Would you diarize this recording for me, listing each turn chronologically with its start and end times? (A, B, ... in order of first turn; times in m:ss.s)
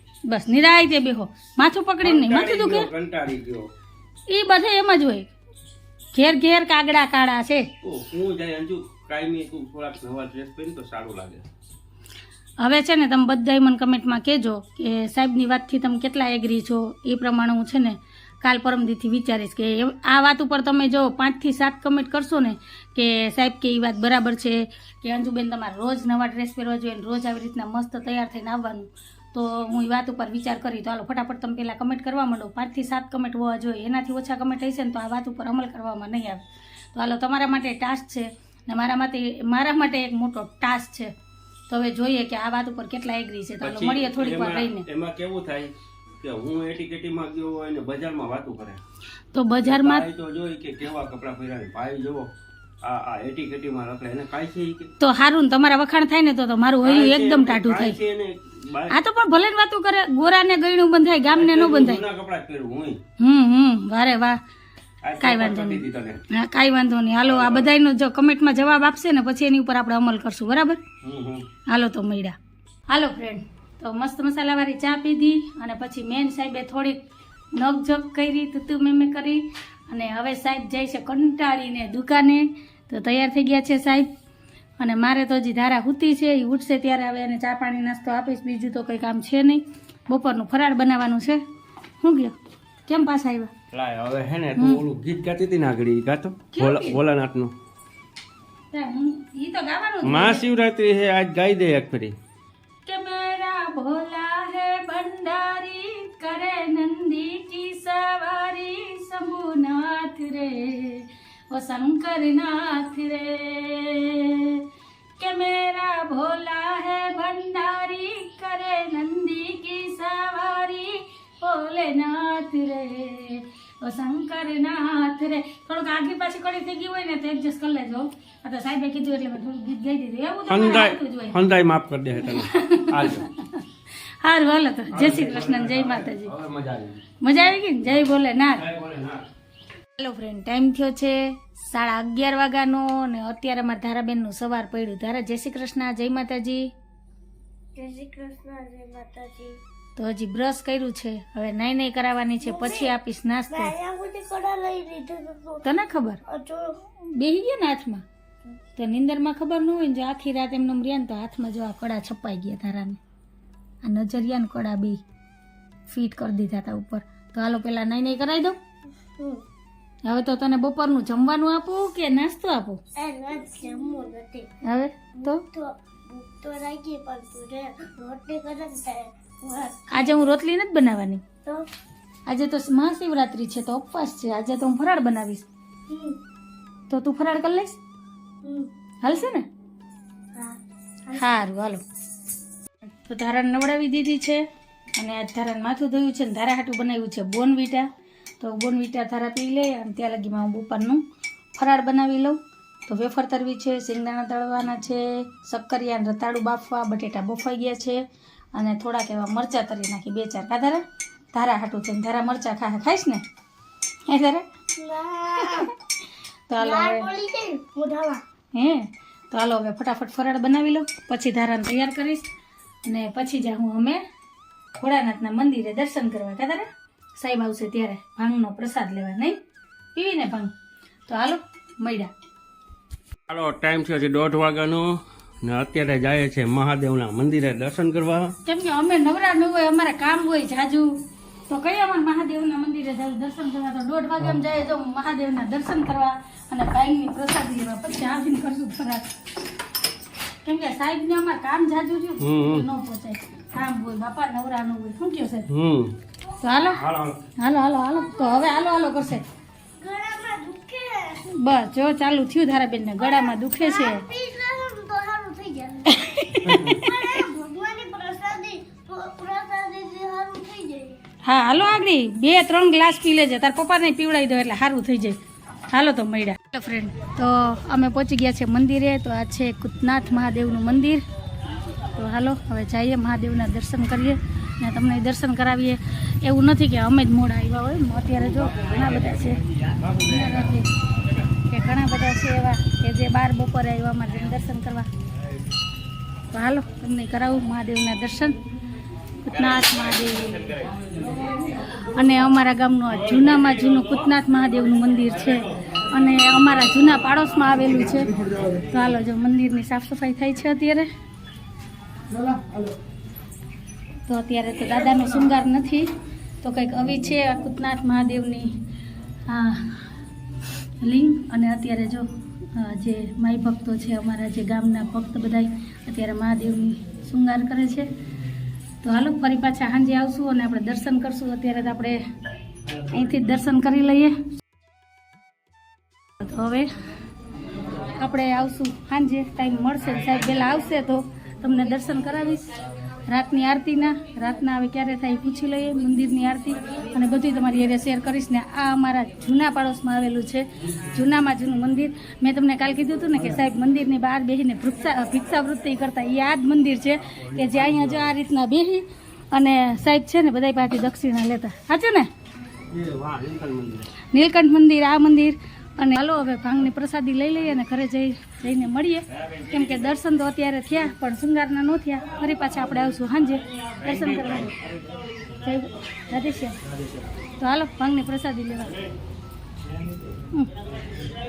0:00.3-0:02.9 A
0:02.0-0:03.7 B
0:04.3-0:05.3 A
0:06.2-0:07.7 A
0:07.8-0:11.5 B
0:12.6-0:41.1 A
0:41.7-0:44.9 A
0:43.6-0:48.8 B
0:49.3-0:50.1 A
0:49.6-0:52.3 B
0:52.8-0:54.9 B
0:55.0-0:58.0 A
0:56.8-0:59.0 B
0:58.9-1:02.0 A
1:01.3-1:03.0 B
1:03.2-1:04.4 A
1:05.0-1:06.2 B
1:05.2-1:10.8 A
1:07.2-1:07.7 B
1:11.0-1:11.5 B
1:11.7-1:12.4 A
1:12.9-1:17.0 A
1:17.6-1:24.1 A
1:24.8-1:31.4 A
1:32.0-1:32.3 A
1:32.9-1:33.5 A
1:33.7-1:37.5 B
1:34.6-1:34.8 A
1:36.5-1:37.0 A
1:38.7-1:40.4 A
1:40.0-1:42.2 B
1:42.9-1:54.6 A
1:55.2-2:11.4 A
2:10.5-2:13.3 B
2:12.4-2:13.6 A
2:14.2-2:16.3 A
2:14.9-2:17.1 B
2:17.2-2:18.6 A
2:18.6-2:19.2 B
2:20.0-2:26.7 A
2:27.8-2:29.6 C
2:30.0-2:33.8 A
2:32.4-2:33.0 C
2:33.5-2:35.6 C
2:35.6-2:36.2 A
2:36.3-2:36.8 C
2:37.1-2:38.0 A
2:38.8-2:43.0 A
2:43.8-2:45.0 A
2:45.9-2:48.6 A
2:49.2-2:49.4 C
2:50.1-2:52.8 A
2:53.0-2:54.5 C
2:54.6-2:55.4 A
2:55.2-3:00.4 C
2:59.9-3:01.2 A
3:02.3-3:05.5 A
3:05.9-3:06.2 C
3:06.9-3:07.8 A
3:08.4-3:08.7 C
3:09.0-3:09.5 A
3:10.4-3:11.4 C
3:11.2-3:11.8 A
3:13.0-3:14.4 A
3:15.0-3:17.9 A
3:18.4-3:21.0 A
3:21.6-3:28.0 A
3:28.6-3:30.8 A
3:31.3-3:33.2 A
3:34.1-3:34.5 A
3:34.8-3:35.7 C
3:35.4-3:35.7 A
3:36.5-3:37.1 A
3:36.6-3:38.2 C
3:38.5-3:42.3 A
3:42.9-3:44.0 A
3:44.8-3:49.4 A
3:50.0-3:50.5 A
3:51.1-3:52.1 A
3:53.3-3:58.4 B
3:58.5-4:00.9 A
4:01.5-4:09.0 A
4:10.4-4:15.5 A
4:12.2-4:12.7 B
4:15.5-4:16.0 B
4:16.4-4:16.8 A
4:16.7-4:17.2 B
4:17.4-4:19.2 A
4:17.9-4:19.0 C
4:19.8-4:21.3 C
4:21.3-4:24.0 A
4:23.0-4:26.1 C
4:25.9-4:27.0 A
4:26.4-4:26.8 B
4:26.8-4:31.0 C
4:31.2-4:35.2 A
4:35.7-4:41.0 A
4:42.0-4:50.7 A
4:51.5-4:54.9 A
4:56.3-4:58.4 A
4:59.3-5:00.7 A
5:01.9-5:10.9 A
5:14.1-5:15.9 A
5:16.4-5:18.5 A
5:19.3-5:19.9 A
5:20.8-5:27.9 A
5:28.8-5:32.0 A
5:32.9-5:34.2 A
5:36.2-5:36.7 A
5:38.0-5:42.4 A
5:43.1-6:02.1 A
5:57.2-5:58.2 B
6:02.7-6:03.9 B
6:04.1-6:14.6 A
6:13.8-6:14.7 B
6:15.4-6:16.6 A
6:16.7-6:17.0 B
6:17.4-6:18.8 A